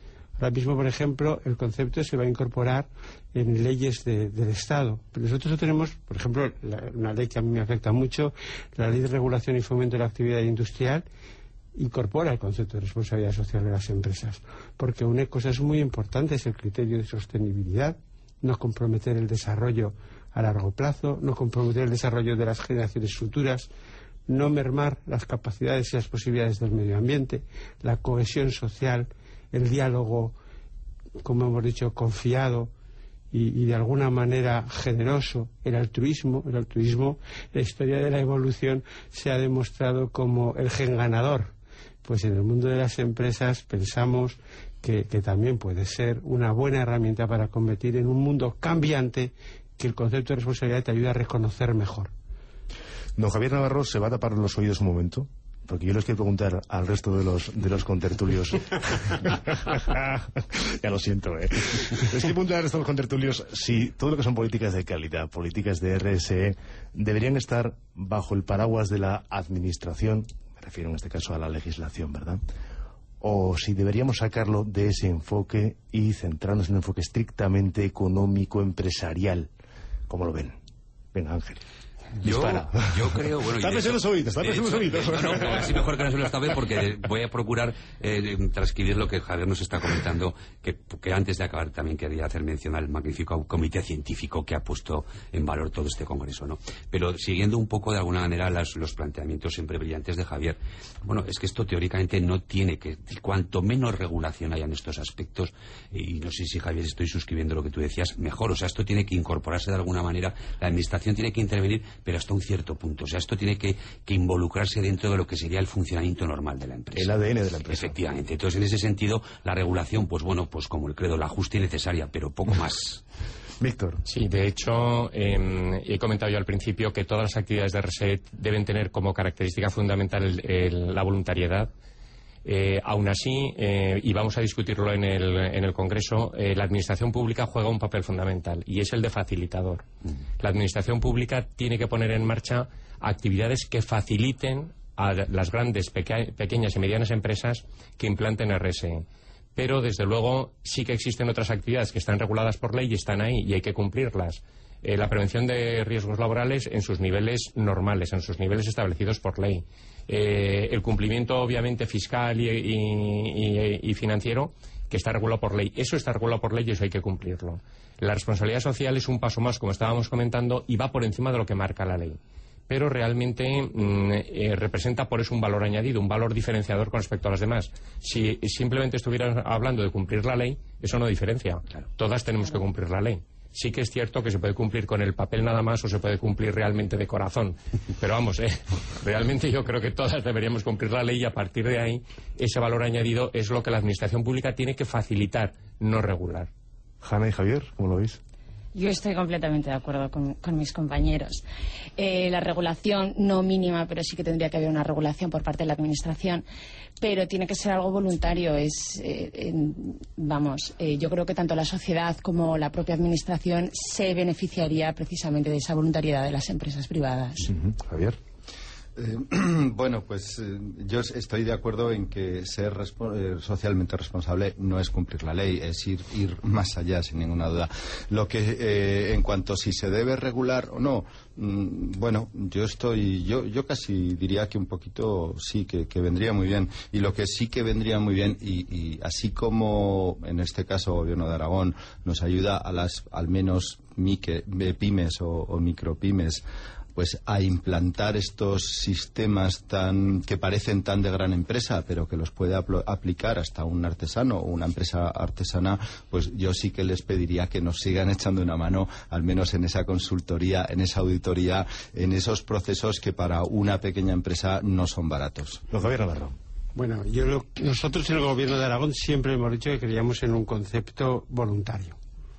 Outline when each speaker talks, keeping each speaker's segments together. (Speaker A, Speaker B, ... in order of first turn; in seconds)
Speaker A: 0.4-11.0, 11.8-23.7, 24.3-30.3, 31.2-32.7, 33.3-52.1, 266.7-272.0
Speaker B: 53.2-72.4, 73.2-79.5, 80.1-80.6, 81.1-81.6, 82.2-82.9, 83.6-85.9, 116.9-118.0, 123.6-124.0, 197.0-198.2, 217.5-218.2, 265.7-266.3
Speaker C: 82.2-117.1, 117.7-123.0
Speaker D: 124.1-131.7, 132.4-139.8, 140.4-172.2, 172.7-196.5
Speaker E: 198.7-201.4, 202.0-206.4, 207.0-217.5
Speaker F: 218.9-246.4, 246.9-265.6